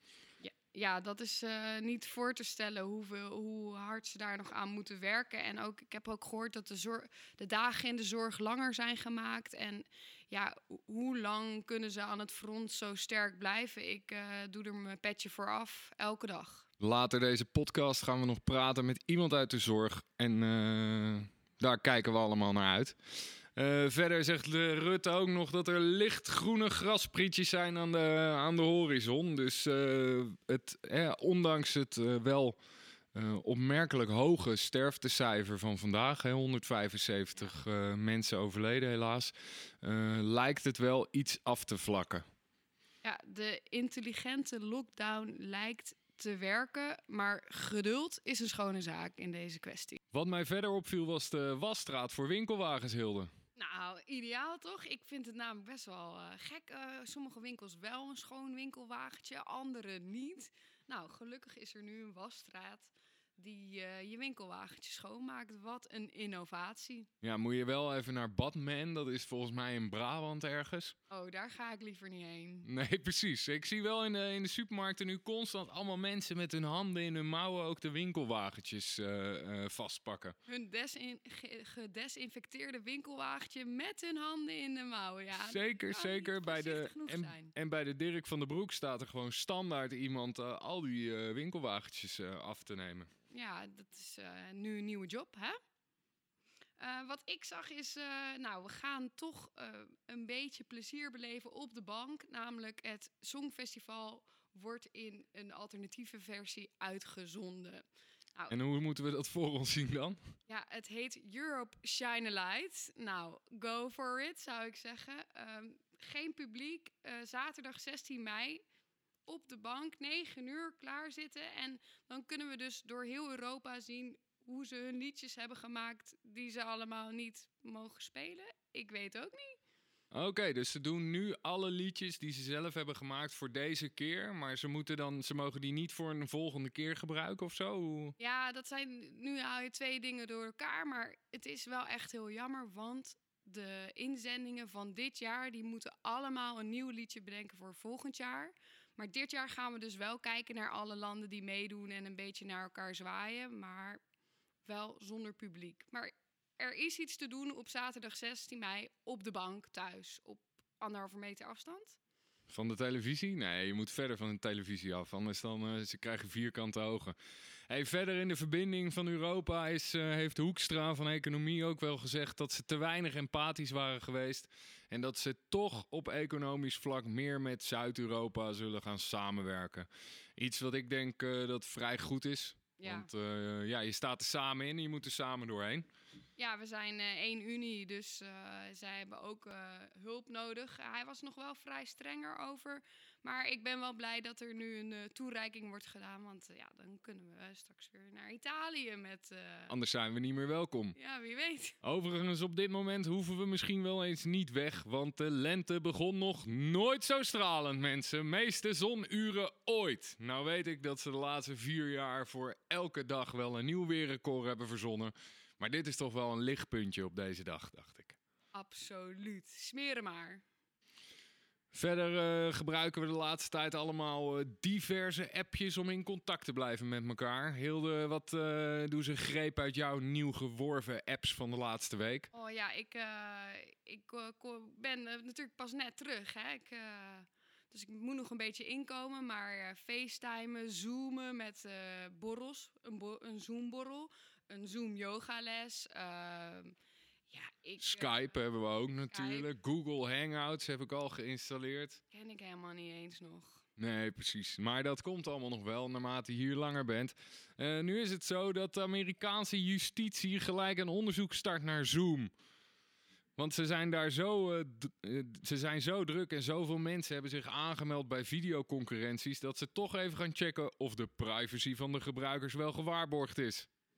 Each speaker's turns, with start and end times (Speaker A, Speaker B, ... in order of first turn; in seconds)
Speaker A: 0.4-16.6, 43.0-50.0, 53.6-67.1, 71.1-72.7, 80.5-87.5, 93.3-95.6, 96.8-107.8, 110.5-118.6, 119.3-129.6, 138.2-154.0, 154.6-162.0, 182.8-183.1, 186.4-199.7, 200.9-201.8, 218.5-220.4, 232.3-246.7, 247.3-248.1, 249.1-249.5, 252.1-253.6
Speaker B: 16.8-32.6, 33.1-42.2, 50.1-53.3, 67.2-71.0, 72.6-80.3, 85.4-93.1, 108.5-110.2, 130.1-138.1, 162.5-167.2, 167.7-185.9, 199.7-200.9, 201.8-218.2, 221.7-232.3, 247.8-252.0, 253.8-262.3, 263.4-273.7